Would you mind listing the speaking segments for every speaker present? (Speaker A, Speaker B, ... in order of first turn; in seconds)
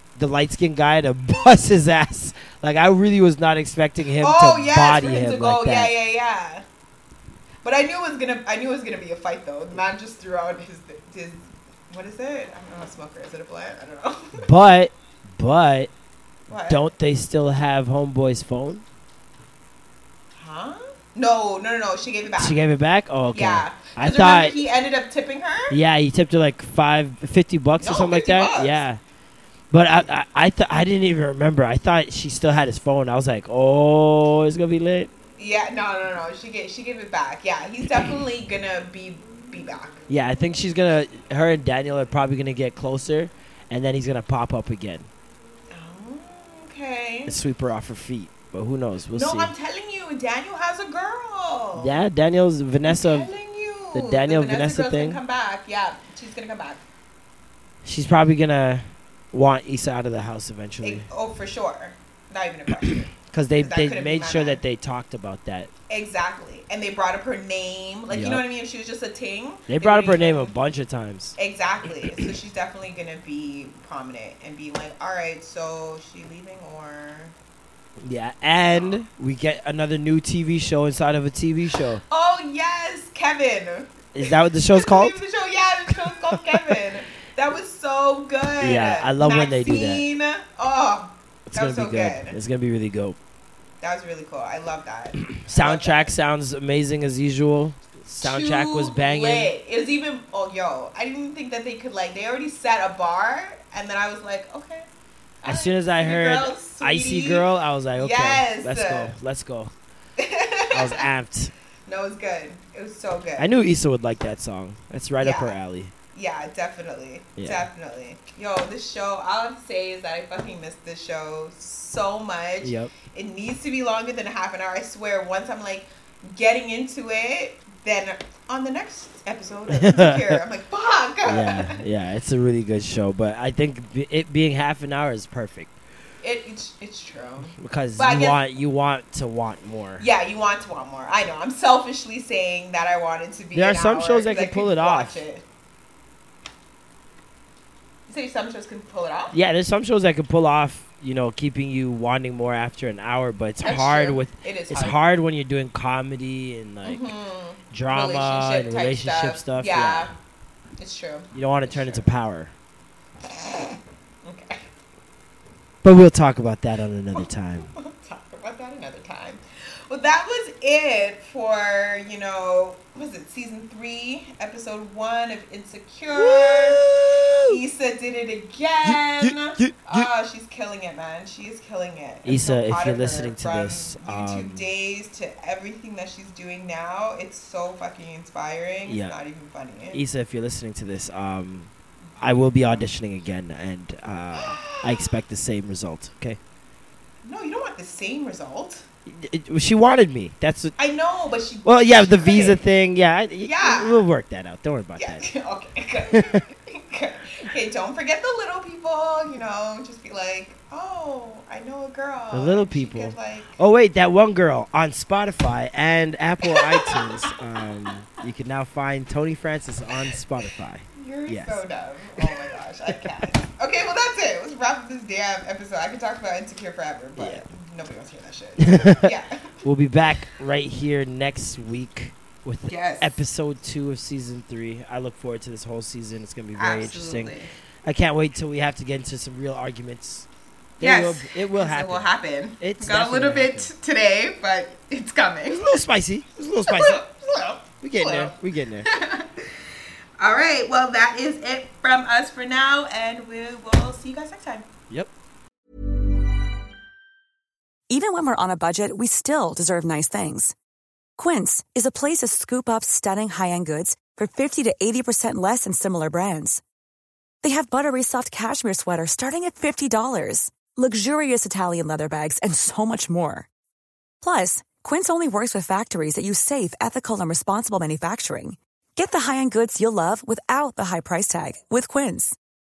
Speaker A: 0.1-5.9, 14.4-15.9, 16.7-18.8, 22.4-24.6, 25.7-29.0, 29.7-35.1, 40.1-45.1, 47.2-49.5, 51.8-53.3, 53.9-55.2, 57.8-61.1, 63.3-65.7, 68.1-68.4, 69.7-71.3, 72.0-72.3, 78.0-82.0, 84.1-85.2, 86.5-86.8, 88.6-90.0, 91.5-93.2, 95.3-99.5, 105.4-109.7, 110.7-111.5, 113.4-115.9, 117.4-117.7, 122.6-122.9, 129.7-130.4, 131.2-135.7, 137.6-140.0, 143.5-145.2, 149.3-157.1, 157.7-160.1, 161.3-162.5, 165.8-167.7, 176.1-177.6, 178.8-180.1, 182.2-184.7, 188.8-189.2, 189.9-196.4, 199.1-200.7, 201.6-205.2, 206.1-206.4, 212.3-221.6, 222.2-223.3, 227.2-227.4, 228.6-229.1, 229.6-237.3, 237.8-240.2, 240.8-242.1, 242.6-243.7, 245.5-247.0, 247.8-248.9
Speaker B: 4.2-6.6, 7.6-14.5, 16.5-16.9, 20.4-22.6, 23.3-25.8, 27.8-28.8, 35.4-40.0, 45.7-47.4, 49.1-52.0, 52.8-56.8, 60.8-64.6, 65.9-70.5, 71.4-77.3, 82.1-92.4, 93.8-96.1, 98.2-104.8, 105.4-109.1, 110.2-111.1, 111.9-113.5, 115.2-115.6, 116.1-131.8, 136.2-138.4, 140.0-145.4, 148.1-149.4, 153.6-155.0, 156.8-160.1, 160.8-162.1, 163.2-164.6, 167.1-176.8, 177.4-190.0, 192.3-192.8, 194.3-195.2, 197.2-198.8, 200.8-202.6, 203.4-204.1, 205.0-213.6, 216.4-217.3, 220.9-229.5, 232.7-233.2, 236.5-237.5, 240.8-245.7, 246.7-249.4, 250.2-254.7
Speaker C: 257.9-260.5, 261.2-266.6, 267.4-273.5, 274.2-282.3